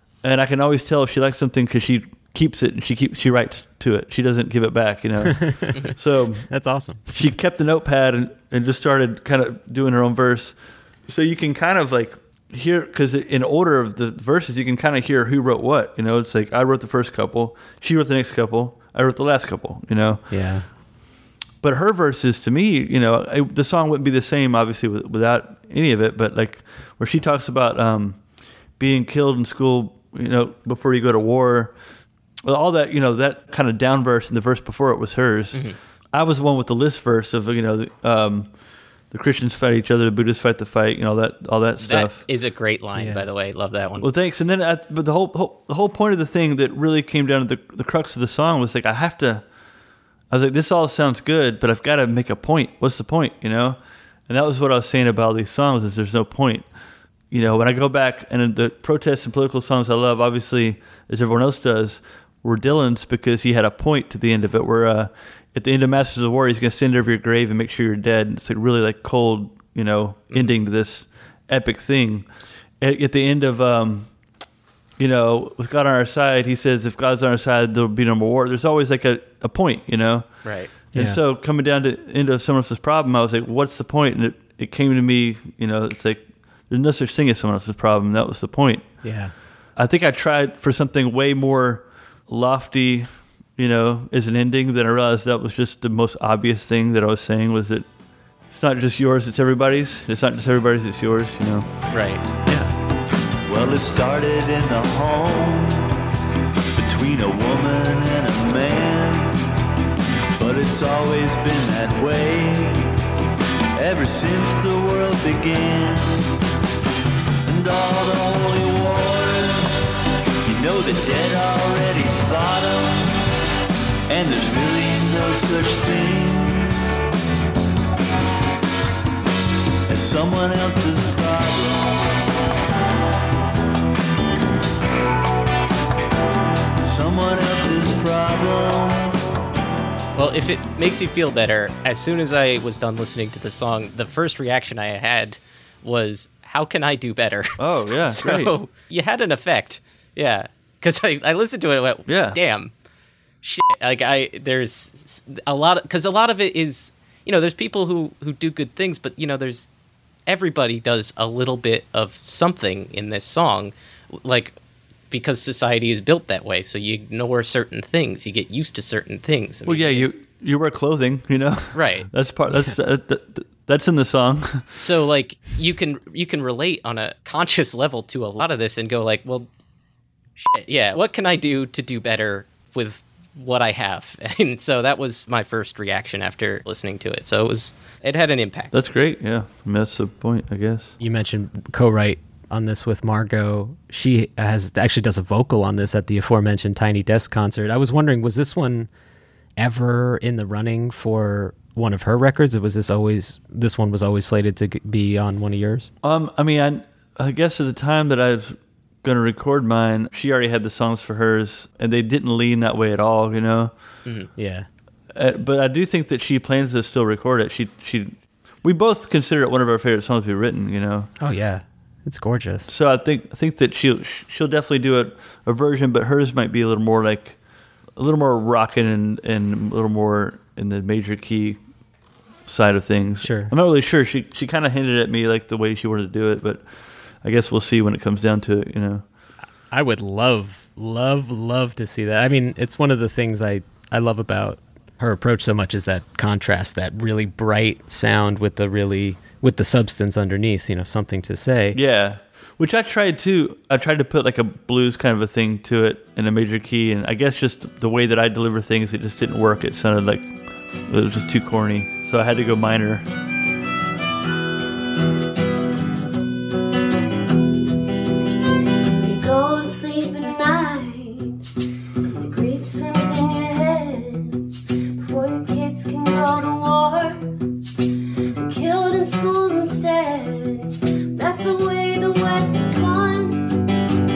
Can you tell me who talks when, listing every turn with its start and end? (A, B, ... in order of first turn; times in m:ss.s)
0:00.2-0:06.6 A
0:05.4-0:05.7 B
0:06.5-0:07.0 B
0:07.1-0:20.8 A
0:20.3-0:20.7 B
0:21.6-0:42.3 A
0:41.8-0:44.1 C
0:43.0-0:43.3 B
0:44.0-0:49.5 A
0:50.3-0:56.7 A
0:57.3-1:14.3 A
1:15.0-1:29.1 A
1:20.4-1:20.7 C
1:29.0-1:29.3 B
1:29.7-1:37.9 A
1:38.5-1:41.9 A
1:41.9-1:42.2 C
1:42.5-1:42.7 B
1:43.5-1:46.0 D
1:46.8-1:49.4 D
1:50.4-1:52.9 D
1:53.8-1:56.3 D
1:57.4-1:59.8 D
2:00.4-2:03.2 D
2:04.1-2:06.7 D
2:09.9-2:12.0 D
2:16.8-2:19.2 D
2:20.2-2:32.7 C
2:27.6-2:28.6 A
2:32.1-2:32.4 A
2:33.4-2:39.7 C
2:40.3-2:44.6 C
2:45.1-2:50.1 C
2:49.6-2:54.7 A
2:51.7-2:52.1 C
2:54.8-2:59.5 C
3:00.4-3:08.7 C
3:08.7-3:10.9 A
3:11.0-3:18.9 B
3:19.6-3:25.9 B
3:26.0-3:34.0 A
3:34.0-3:34.3 C
3:34.4-3:34.7 B
3:35.1-3:41.1 A
3:41.2-3:42.7 B
3:42.7-3:47.4 A
3:47.9-3:51.6 A
3:52.4-3:59.0 A
3:53.2-3:53.5 B
3:59.7-4:11.8 B
4:11.7-4:23.0 A
4:29.0-4:31.4 E
4:32.2-4:34.5 E
4:35.0-4:37.2 E
4:38.4-4:43.4 E